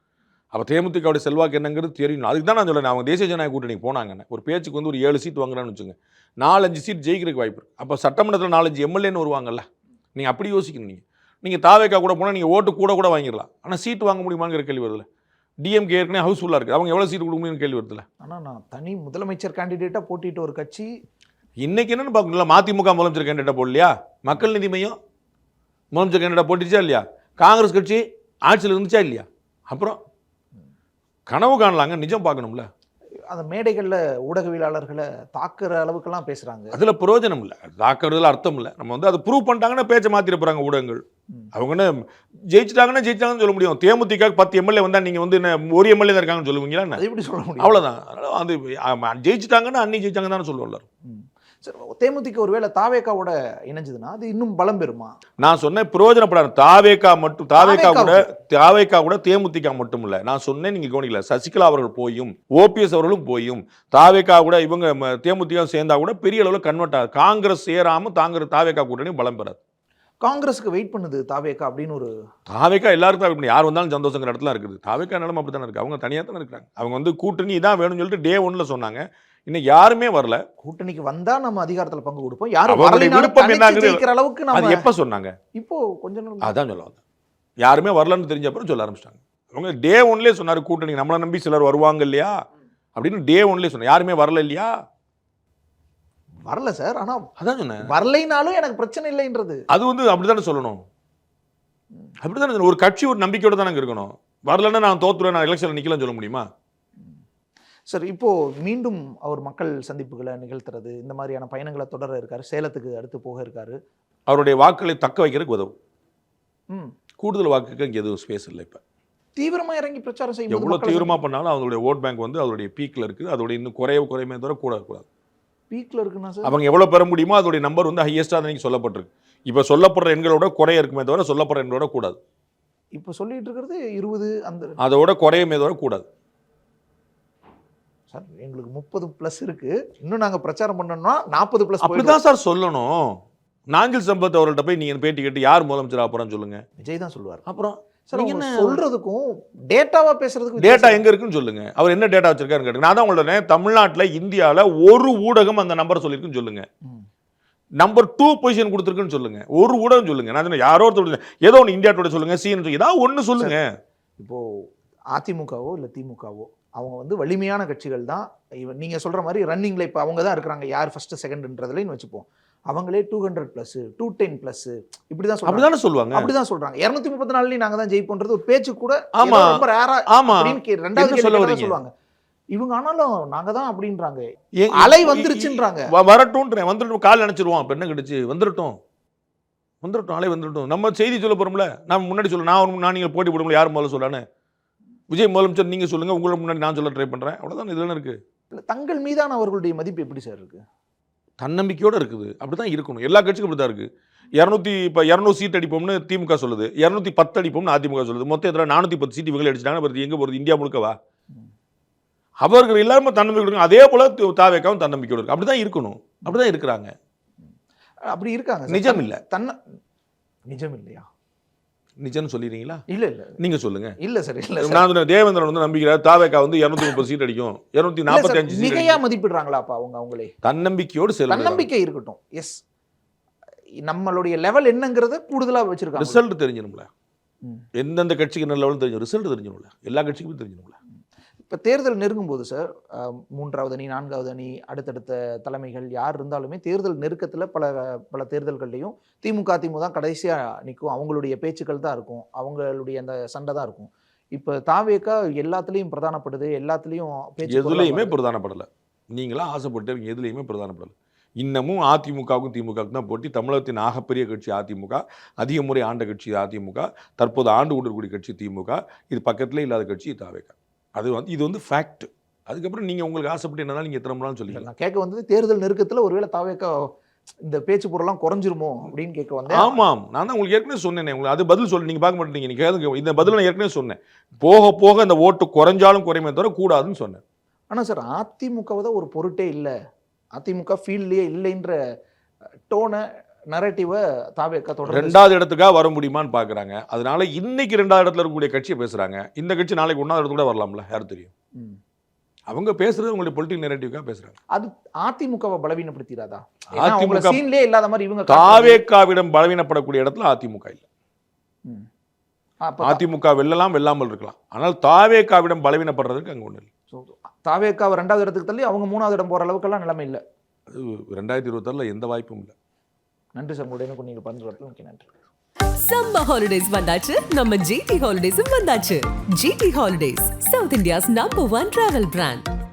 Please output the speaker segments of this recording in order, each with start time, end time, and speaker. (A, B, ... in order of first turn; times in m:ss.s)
0:00.5-0:15.0 A
0:15.6-0:18.1 A
0:18.2-0:20.9 B
0:21.6-0:25.0 A
0:25.9-0:30.0 A
0:31.3-0:32.7 A
0:33.3-0:36.8 B
0:36.7-0:47.0 A
0:47.0-0:47.8 B
0:47.6-0:50.9 A
0:51.0-0:55.1 B
0:55.4-1:09.6 A
0:57.6-0:58.2 B
1:10.2-1:12.1 B
1:12.5-1:20.4 A
1:20.6-1:24.9 B
1:22.7-1:24.0 A
1:24.5-1:25.4 A
1:25.6-1:26.6 B
1:26.4-1:27.0 A
1:27.6-1:32.4 A
1:33.0-1:34.7 A
1:36.4-1:37.3 B
1:37.4-1:37.9 A
1:37.8-1:39.6 B
1:39.7-1:40.8 A
1:42.2-1:46.5 A
1:47.9-1:53.8 B
1:54.3-1:55.7 A
1:57.2-1:58.8 A
1:59.4-2:01.1 B
2:00.5-2:05.1 A
2:05.7-2:06.6 B
2:06.4-2:12.2 A
2:13.0-2:14.8 B
2:14.8-2:16.1 A
2:18.1-2:22.2 B
2:21.8-2:23.2 A
2:23.7-2:26.6 A
2:26.8-2:27.4 B
2:27.5-2:28.8 A
2:28.1-2:31.0 B
2:30.6-2:36.6 A
2:37.8-2:43.7 A
2:44.2-3:01.9 B
2:55.5-2:56.3 A
2:59.1-3:01.8 A
3:02.5-3:05.9 B
3:04.6-3:08.8 A
3:09.8-3:14.2 A
3:15.1-3:18.2 A
3:18.5-3:20.6 B
3:21.4-3:31.0 A
3:32.4-3:36.9 A
3:38.0-3:39.6 B
3:38.7-3:39.2 A
3:40.5-3:41.1 B
3:42.0-3:42.8 A
3:42.9-3:43.4 B
3:43.4-3:44.0 A
3:44.0-3:44.9 B
3:44.6-3:49.0 A
3:48.1-3:50.3 B
3:50.4-3:51.7 A
3:51.3-3:52.6 B
3:53.8-3:56.2 B
3:56.0-3:56.9 A
3:57.8-4:00.8 A
4:01.4-4:18.1 B
4:17.5-4:34.6 A
4:34.5-4:36.9 B
4:37.5-4:39.8 B
4:39.5-4:47.2 A
4:47.7-4:49.7 B
4:50.4-4:51.8 B
4:52.7-4:55.2 B
4:54.9-5:01.3 A
5:02.5-5:04.4 A
5:04.5-5:08.8 B
5:06.7-5:07.4 A
5:08.3-5:10.8 A
5:12.6-5:13.0 B
5:12.8-5:16.7 A
5:16.9-5:20.2 B
5:20.7-5:22.5 A
5:23.4-5:25.1 B
5:25.8-5:32.4 C